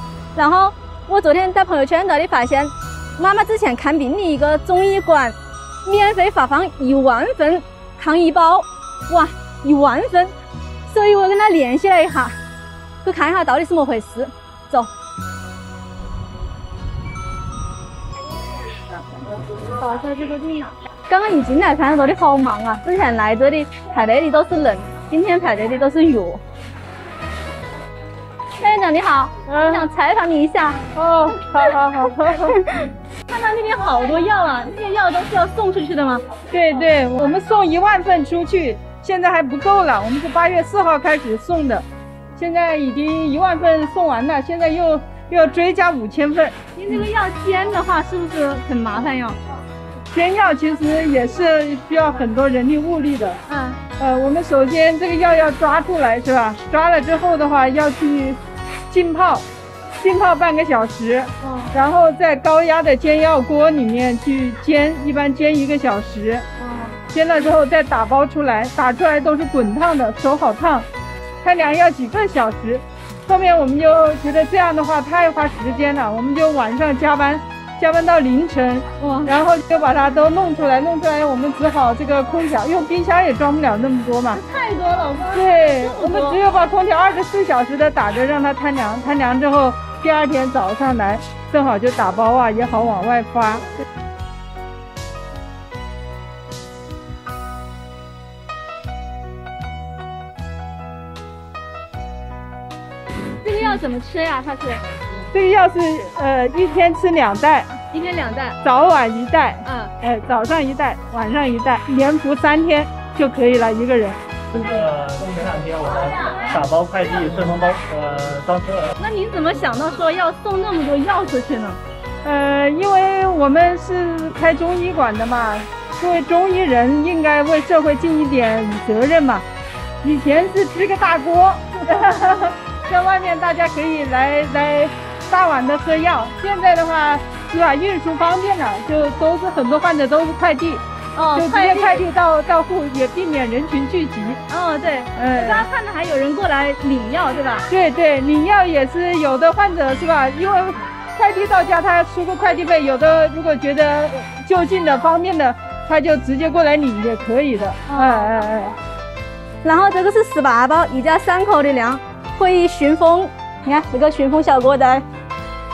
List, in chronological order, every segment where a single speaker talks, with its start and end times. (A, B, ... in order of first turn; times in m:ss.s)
0:00.3-0:10.3 A
0:10.8-0:12.3 A
0:13.0-0:14.9 A
0:19.7-0:26.4 A
0:28.6-0:30.8 A
0:29.5-0:29.9 B
0:30.9-0:32.6 B
0:31.5-0:36.2 A
0:36.5-0:41.8 B
0:42.4-0:47.0 B
0:46.8-0:49.4 A
0:50.1-0:53.4 B
0:53.5-0:53.8 A
0:54.0-0:59.4 B
1:00.0-1:06.4 B
1:01.4-1:01.7 A
1:06.6-1:07.0 A
1:07.1-1:10.8 B
1:11.4-1:24.4 B
1:19.0-1:19.3 A
1:24.3-1:26.4 A
1:25.3-1:33.6 B
1:43.4-1:44.8 A
1:45.3-1:47.8 B
1:47.9-1:48.6 A
1:48.6-1:54.2 B
1:49.6-1:49.9 A
1:54.5-1:58.9 C
1:59.0-2:01.8 A
2:02.2-2:09.4 B
2:10.0-2:20.8 B
2:21.2-2:22.0 A
2:21.3-2:24.4 B
2:24.5-2:27.7 A
2:25.1-2:25.7 B
2:27.7-2:38.7 B
2:37.9-2:38.5 A
2:39.6-2:45.0 A